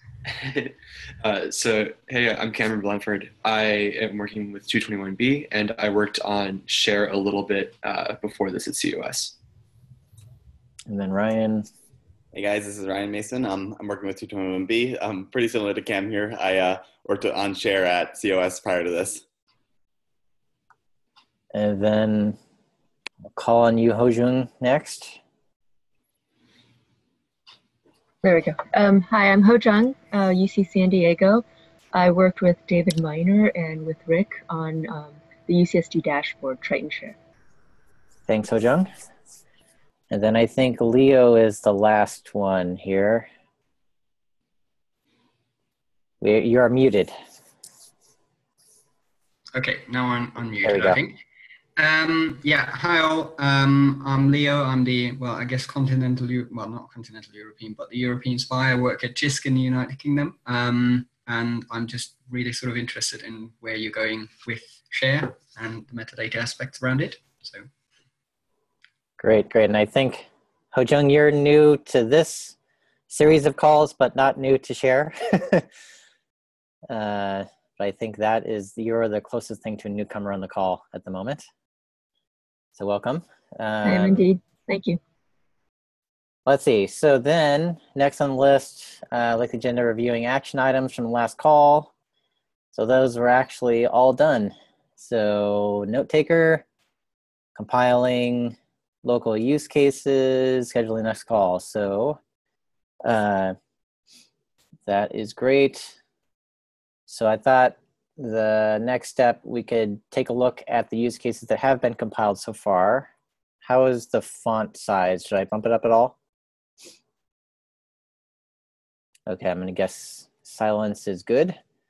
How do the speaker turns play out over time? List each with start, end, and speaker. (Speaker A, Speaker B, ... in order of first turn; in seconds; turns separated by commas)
Speaker A: 0.3-9.4, Speaker B: 10.9-11.7, Speaker C: 12.3-19.2, Speaker B: 21.5-22.4, Speaker B: 23.4-25.2, Speaker D: 28.2-37.2, Speaker B: 38.3-38.9, Speaker B: 40.1-43.3, Speaker B: 46.2-47.1, Speaker E: 49.5-51.2, Speaker B: 50.6-51.0, Speaker E: 51.8-67.7, Speaker B: 69.2-72.6, Speaker B: 73.1-75.7, Speaker B: 76.9-81.5, Speaker B: 82.8-84.2, Speaker D: 83.8-85.0, Speaker B: 86.5-91.9, Speaker B: 92.7-96.7, Speaker B: 97.5-102.2, Speaker B: 103.0-103.5, Speaker B: 104.9-106.0, Speaker B: 107.1-113.1, Speaker B: 113.6-116.2, Speaker B: 119.3-121.6